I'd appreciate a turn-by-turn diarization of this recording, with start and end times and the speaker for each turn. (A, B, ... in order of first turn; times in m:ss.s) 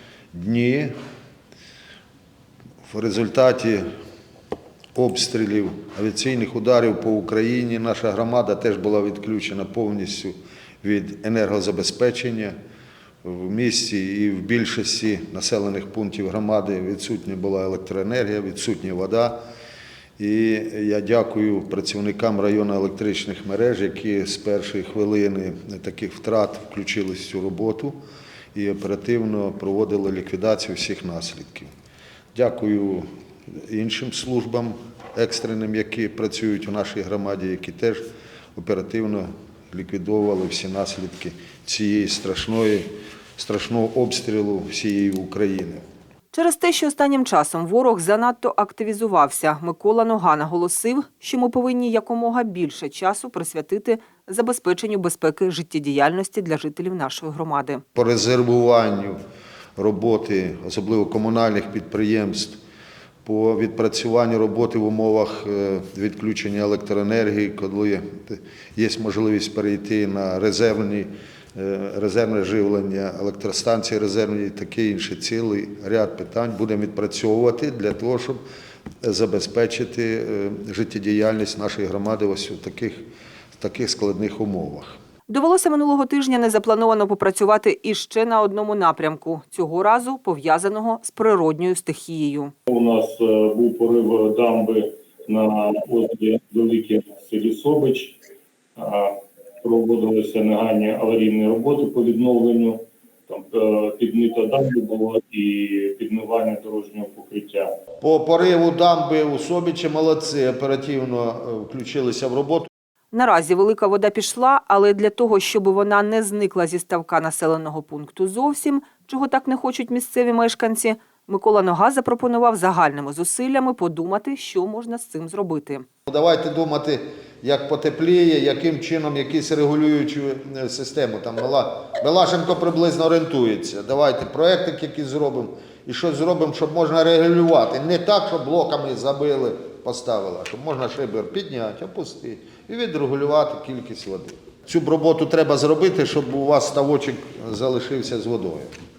0:00.3-0:00.9 A
0:02.9-0:03.9 A
0:05.0-0:12.6 A
0:13.2-0:19.4 A
0:20.2-0:28.0 A
0:28.5-0:31.7 A
0:32.4-0:33.1 A
0:33.6-0:38.0 A
0:38.6-0:45.8 A
0:46.3-0:57.8 B
0:58.0-0:59.2 A
0:59.8-1:02.6 A
1:03.2-1:18.4 A
1:19.0-1:23.0 A
1:23.6-1:25.0 A
1:25.3-1:32.5 B
1:32.7-1:38.2 C
1:38.8-1:47.7 C
1:48.0-1:52.7 A
1:53.1-2:05.9 B
2:06.1-2:28.7 A